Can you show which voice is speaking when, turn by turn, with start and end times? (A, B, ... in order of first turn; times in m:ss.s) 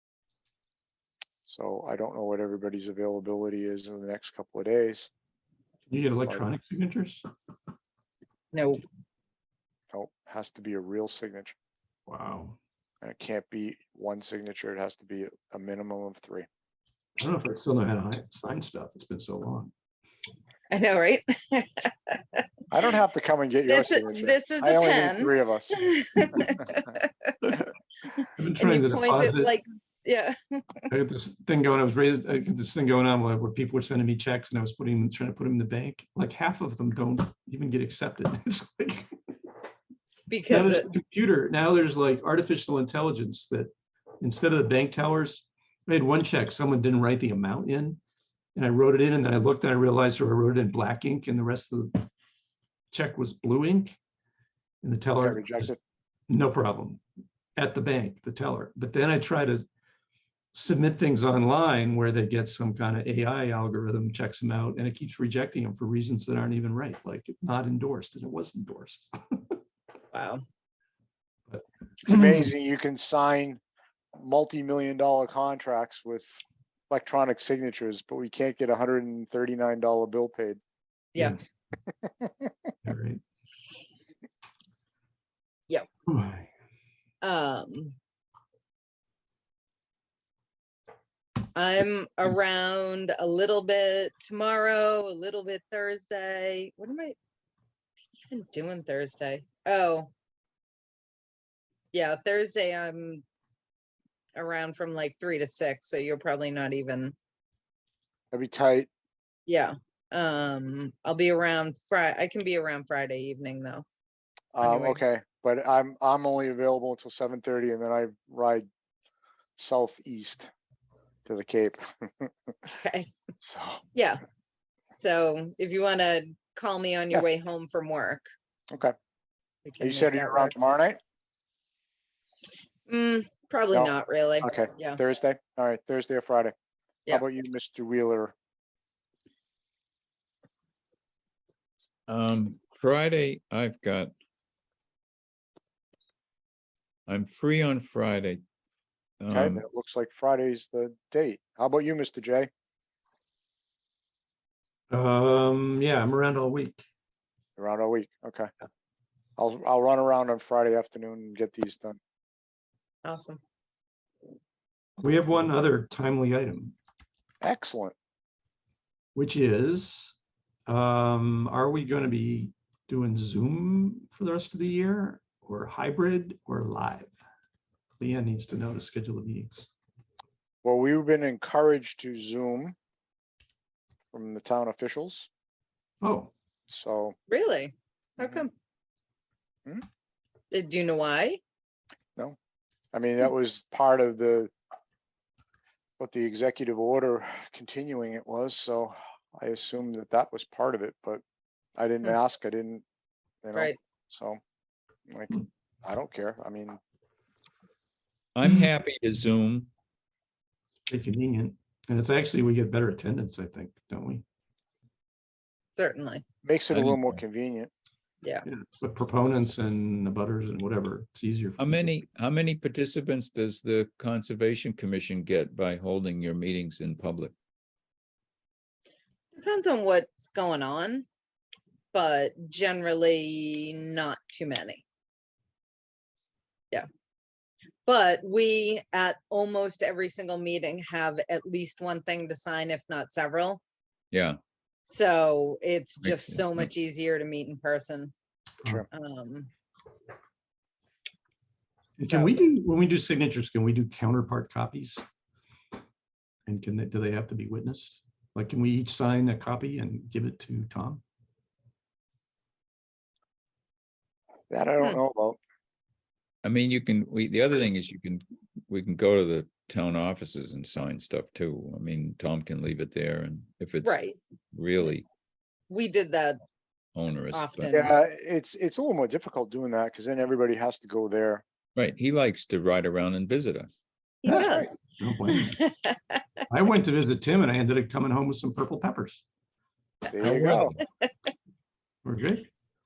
0:01.5-0:05.1 A
0:05.9-0:07.3 B
0:08.5-0:08.8 C
0:09.9-0:11.6 A
0:12.1-0:12.6 B
0:13.0-0:16.5 A
0:17.2-0:19.7 B
0:20.7-0:22.4 C
0:22.7-0:26.8 A
0:23.7-0:27.6 C
0:28.2-0:30.9 C
0:28.2-0:29.5 B
0:30.9-0:39.2 B
0:40.3-0:40.9 C
0:40.5-0:48.0 B
0:48.6-0:52.1 B
0:52.9-0:54.0 B
0:54.8-0:55.7 B
0:55.2-0:55.8 A
0:56.3-0:57.0 B
0:57.6-0:59.6 B
1:00.5-1:09.6 B
1:10.1-1:10.4 C
1:12.0-1:13.6 A
1:14.2-1:20.6 A
1:21.9-1:22.5 A
1:22.8-1:23.2 B
1:26.1-1:26.5 B
1:27.2-1:28.0 C
1:31.6-1:37.2 C
1:38.3-1:40.1 C
1:41.9-1:43.2 C
1:44.4-1:47.2 C
1:48.3-1:48.9 A
1:49.5-1:53.8 C
1:54.5-1:58.7 A
1:54.6-1:55.0 C
1:59.6-2:00.5 A
2:01.3-2:02.8 A
2:02.8-2:03.1 C
2:03.4-2:03.8 A
2:04.9-2:08.3 C
2:09.6-2:10.5 C
2:09.8-2:11.0 A
2:12.9-2:15.0 C
2:13.7-2:16.5 A
2:17.1-2:18.3 A
2:22.1-2:24.1 D
2:27.1-2:28.4 D
2:29.2-2:29.6 D
2:29.3-2:32.5 A
2:34.9-2:36.8 B
2:37.6-2:38.5 A
2:39.4-2:42.0 A
2:43.0-2:43.4 C
2:45.0-2:46.8 B
2:47.4-2:47.9 A
2:49.2-2:50.2 B
2:50.7-2:57.2 B
2:58.0-2:59.7 B
3:00.6-3:02.8 A
3:04.1-3:05.3 A
3:06.0-3:06.3 B
3:06.7-3:07.2 A
3:07.3-3:08.5 C
3:08.2-3:08.5 A
3:10.5-3:11.4 C
3:12.9-3:14.5 A
3:16.0-3:21.2 A
3:21.8-3:22.8 A
3:23.4-3:24.4 A
3:25.1-3:26.8 A
3:28.4-3:29.7 D
3:30.9-3:34.2 B
3:35.8-3:36.2 C
3:36.4-3:37.7 A
3:36.7-3:37.2 B
3:38.5-3:42.0 B
3:41.6-3:47.3 D
3:49.3-3:51.0 C
3:51.9-3:54.8 C
3:57.9-4:03.6 C
4:04.1-4:04.4 D
4:04.9-4:08.1 C
4:06.0-4:06.7 D
4:08.9-4:09.5 C
4:12.0-4:15.0 B
4:12.1-4:12.5 C
4:16.5-4:21.0 B
4:24.5-4:25.4 A
4:26.4-4:34.0 D
4:33.8-4:34.2 C
4:34.5-4:35.1 D
4:35.7-4:36.4 C
4:37.0-4:37.8 D
4:37.3-4:37.9 C
4:37.7-4:41.4 A
4:41.8-4:43.8 D
4:44.2-4:44.8 C
4:44.3-4:44.7 A
4:45.0-4:45.7 B
4:45.4-4:46.2 C
4:46.5-4:49.2 B
4:50.1-4:50.8 A
4:50.2-4:50.8 D
4:52.0-4:52.5 B